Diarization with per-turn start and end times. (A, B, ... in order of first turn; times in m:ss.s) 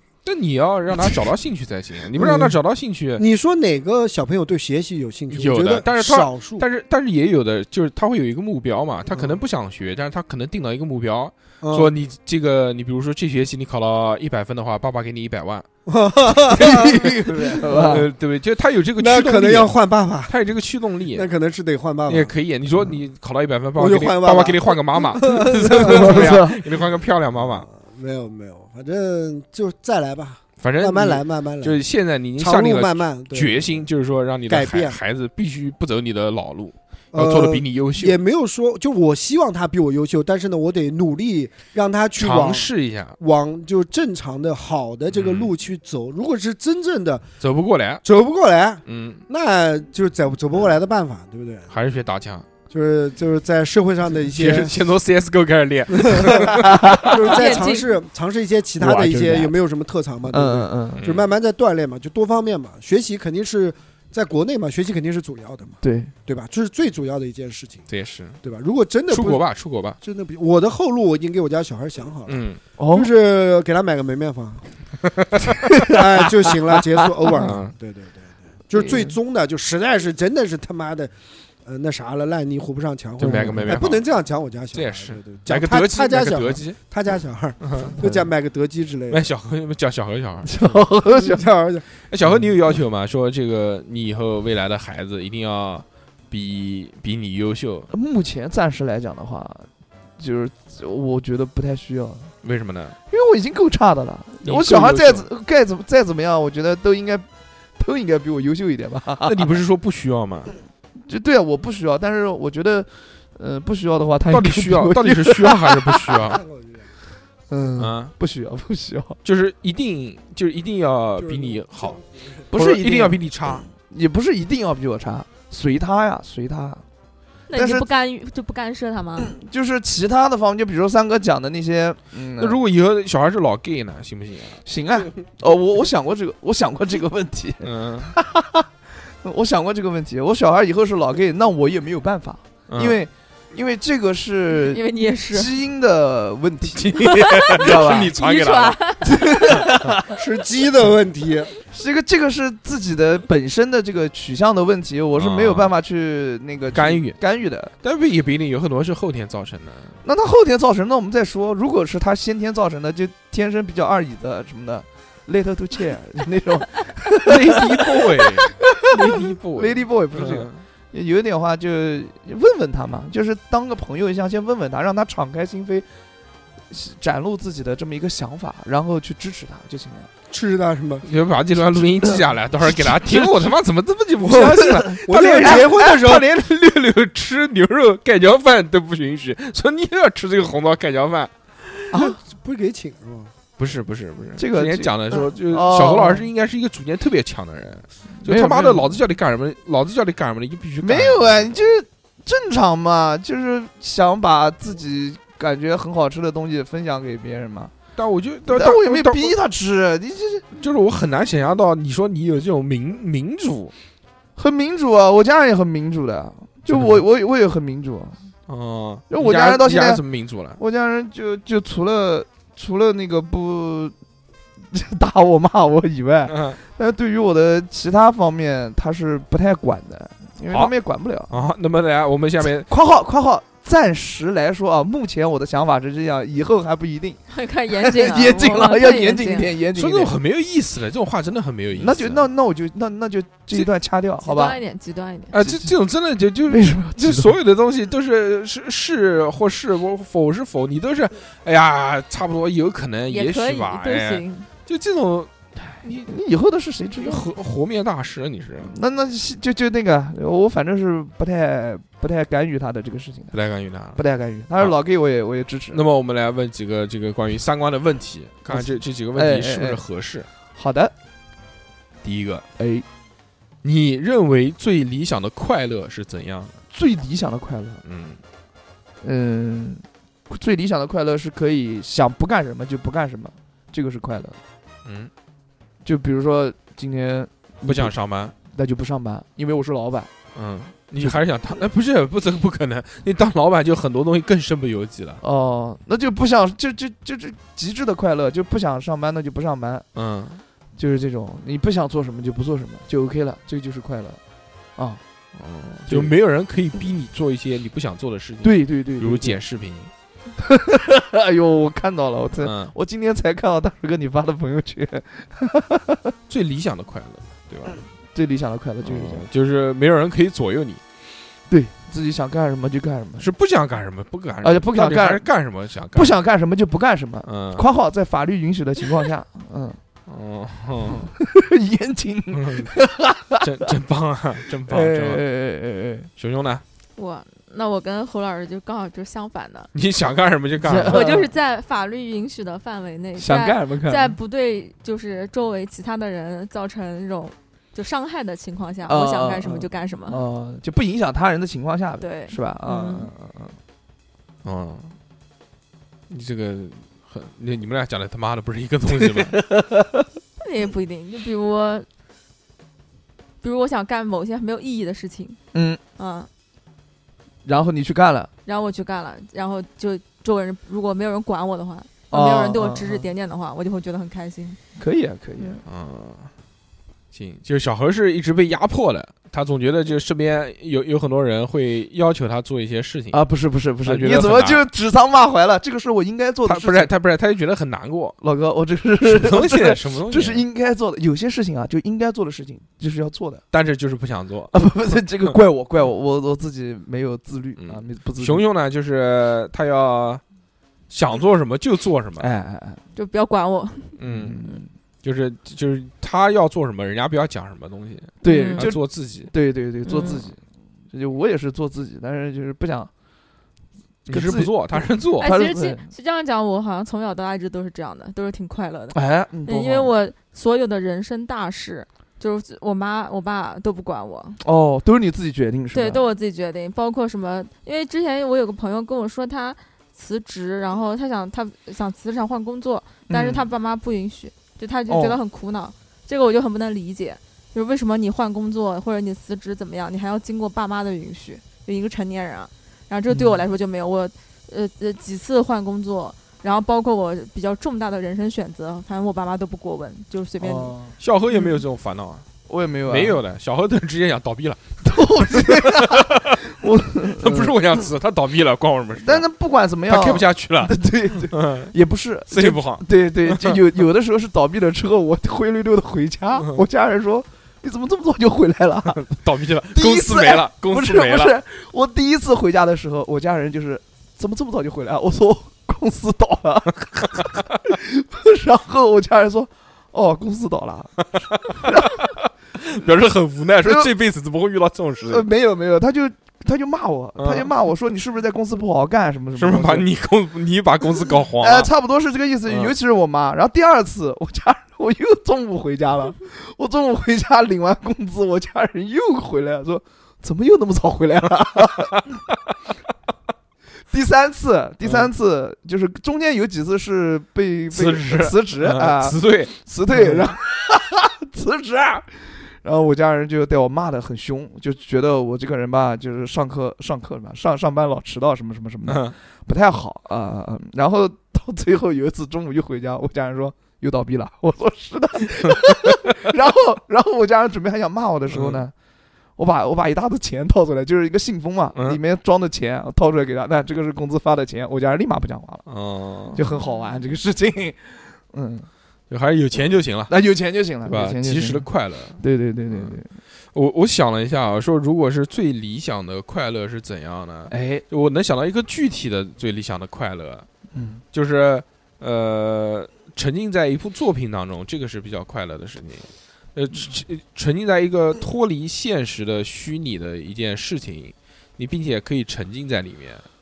0:00.2-0:03.2 A
0:02.2-0:02.6 B
0:03.2-0:06.7 B
0:05.3-0:15.7 A
0:11.6-0:11.9 B
0:15.9-0:18.0 B
0:16.5-0:17.0 A
0:16.5-0:18.1 C
0:17.6-0:19.8 A
0:19.0-0:20.3 B
0:20.3-0:21.3 A
0:21.1-0:22.3 B
0:22.1-0:27.7 A
0:23.8-0:26.5 B
0:25.5-0:26.6 C
0:27.4-0:31.8 B
0:30.6-0:38.2 A
0:32.4-0:33.8 B
0:34.5-0:35.0 B
0:37.1-0:47.3 B
0:42.2-0:43.2 A
0:45.1-0:45.5 A
0:47.4-0:48.0 A
0:48.0-0:51.7 B
0:48.9-0:49.2 A
0:51.7-0:52.4 A
0:52.7-0:54.8 B
0:54.3-0:57.4 A
0:55.9-1:07.8 B
0:56.6-0:57.1 C
0:57.2-0:57.9 D
0:58.8-0:59.5 C
1:00.3-1:01.0 C
1:01.0-1:01.2 A
1:05.8-1:06.1 C
1:07.9-1:08.4 A
1:08.4-1:09.4 B
1:09.1-1:10.0 A
1:10.0-1:14.7 B
1:12.3-1:12.6 A
1:12.8-1:13.1 C
1:15.5-1:16.5 C
1:15.8-1:21.1 B
1:17.3-1:17.7 A
1:18.8-1:19.1 C
1:21.6-1:29.2 B
1:23.2-1:24.0 A
1:23.2-1:23.8 C
1:24.7-1:26.8 A
1:27.6-1:28.0 A
1:29.1-1:30.7 A
1:30.4-1:31.4 C
1:31.1-1:31.9 B
1:32.1-1:37.9 A
1:37.9-1:42.3 C
1:42.4-1:43.0 A
1:43.1-1:49.5 C
1:44.4-1:45.3 A
1:49.2-1:50.5 A
1:51.0-1:56.1 C
1:54.3-1:56.4 A
1:56.3-1:56.9 B
1:57.5-1:59.2 C
1:57.8-1:58.1 A
1:59.2-2:02.0 A
2:01.2-2:02.4 B
2:02.5-2:06.8 C
2:02.5-2:03.7 A
2:07.5-2:09.3 D
2:07.6-2:07.8 C
2:09.2-2:12.6 C
2:12.4-2:14.6 A
2:14.6-2:28.1 C
2:17.6-2:18.1 A
2:22.7-2:23.0 A
2:24.6-2:25.5 D
2:26.7-2:29.0 A
2:27.0-2:29.7 D
2:29.0-2:30.1 C
2:30.1-2:31.5 B
2:31.7-2:37.7 C
2:35.2-2:35.7 A
2:36.7-2:37.2 A
2:37.8-2:40.0 A
2:40.0-2:55.9 C
2:47.3-2:50.6 A
2:56.7-3:00.1 C
3:00.3-3:01.1 B
3:01.0-3:11.3 A
3:02.8-3:03.4 C
3:04.3-3:06.3 B
3:04.4-3:06.2 C
3:11.9-3:12.2 C
3:11.9-3:13.3 B
3:13.6-3:21.6 A
3:14.4-3:16.2 C
3:18.2-3:19.0 C
3:20.8-3:27.7 C
3:28.0-3:29.4 A
3:28.5-3:30.5 C
3:30.6-3:33.7 A
3:34.4-3:38.2 C
3:36.7-3:37.0 A
3:38.5-3:40.6 A
3:39.1-3:40.0 C
3:40.6-3:44.0 C
3:44.7-3:51.4 C
3:46.3-3:46.6 A
3:51.3-3:52.7 A
3:52.4-4:00.2 C
3:57.3-3:59.5 D
3:59.8-4:02.3 A
4:01.8-4:04.6 C
4:04.2-4:05.4 D
4:05.3-4:16.1 A
4:05.4-4:05.7 C
4:06.5-4:07.4 C
4:13.1-4:14.5 D
4:16.0-4:17.3 C
4:17.0-4:18.8 A
4:18.7-4:23.4 C
4:23.3-4:24.0 A
4:24.0-4:25.8 C
4:25.7-4:30.3 A
4:28.5-4:29.8 C
4:30.5-4:30.9 C
4:32.0-4:32.5 A
4:32.6-4:32.8 C
4:33.6-4:36.6 A
4:36.7-4:37.8 C
4:37.8-4:38.2 A
4:39.0-4:44.4 C
4:44.8-4:45.1 A
4:45.8-4:47.9 C
4:47.7-4:48.3 A
4:48.5-4:50.1 C
4:50.4-4:55.2 A
4:55.2-4:59.8 C
4:59.9-5:00.4 A
5:00.8-5:04.2 C
5:05.4-5:09.9 A
5:05.9-5:06.1 C
5:08.4-5:09.4 C
5:10.4-5:16.1 C
5:12.4-5:12.7 A
5:16.3-5:17.8 A
5:18.1-5:19.3 C
5:18.8-5:20.8 A
5:21.5-5:23.3 C
5:23.2-5:26.2 A
5:24.4-5:25.3 C
5:25.9-5:29.8 C
5:27.2-5:27.6 A
5:30.1-5:31.1 A
5:31.2-5:33.6 C
5:32.3-5:32.7 A
5:33.4-5:35.2 A
5:34.7-5:36.1 C
5:36.2-5:36.6 A
5:37.0-5:39.7 D
5:39.7-5:41.1 A
5:40.6-5:41.3 C
5:40.8-5:50.2 D
5:43.2-5:44.2 C
5:48.9-5:53.6 C
5:52.0-5:53.1 D
5:54.4-5:55.0 A
5:56.1-5:59.4 A
5:59.1-6:00.1 C
6:00.4-6:01.9 D
6:03.4-6:05.4 D
6:05.5-6:05.8 C
6:06.0-6:06.3 D
6:07.4-6:08.3 C
6:08.4-6:14.6 D
6:12.1-6:13.1 C
6:14.8-6:15.6 C
6:15.7-6:16.3 A
6:17.1-6:23.2 A
6:23.1-6:26.9 C
6:23.8-6:24.6 A
6:26.5-6:28.2 A
6:28.2-6:33.4 C
6:29.0-6:30.4 A
6:33.5-6:34.6 A
6:34.5-6:38.4 C
6:37.6-6:40.2 A
6:40.9-6:42.3 A
6:42.2-6:42.8 C
6:42.9-6:44.0 D
6:44.0-6:44.5 A
6:44.0-6:44.7 C
6:45.0-6:49.3 A
6:48.2-6:52.9 C
6:48.3-6:48.7 D
6:49.9-6:50.3 D
6:54.1-6:55.3 A
6:54.1-6:55.9 C
6:55.2-7:04.4 D
6:58.9-6:59.9 C
7:04.4-7:06.0 C
7:05.7-7:30.8 D
7:13.1-7:13.5 C
7:14.9-7:15.2 C
7:23.1-7:23.4 C
7:30.4-7:31.0 C
7:31.0-7:32.3 A
7:32.5-7:33.2 C
7:32.9-7:36.4 A
7:34.8-7:37.6 C
7:37.2-7:39.3 A
7:39.0-7:49.1 C
7:39.9-7:41.7 A
7:42.3-7:43.6 A
7:46.4-7:46.6 A
7:48.9-7:51.3 A
7:49.7-8:02.1 C
8:01.1-8:05.3 A
8:03.6-8:03.9 C
8:05.1-8:09.9 C
8:07.2-8:07.5 A
8:09.4-8:11.7 A
8:11.4-8:22.1 C
8:12.5-8:12.7 A
8:23.9-8:48.7 C
8:27.7-8:30.3 A
8:38.9-8:39.2 A
8:48.3-8:48.6 A
8:49.4-8:55.6 C
8:51.8-8:52.0 A
8:55.7-8:56.4 A
8:56.4-8:58.7 C
8:56.6-8:56.9 D
8:59.1-9:00.1 A
9:00.1-9:01.7 C
9:00.9-9:03.0 A
9:02.2-9:03.1 C
9:03.5-9:10.5 A
9:07.5-9:07.8 C
9:10.7-9:11.0 C
9:11.1-9:23.3 A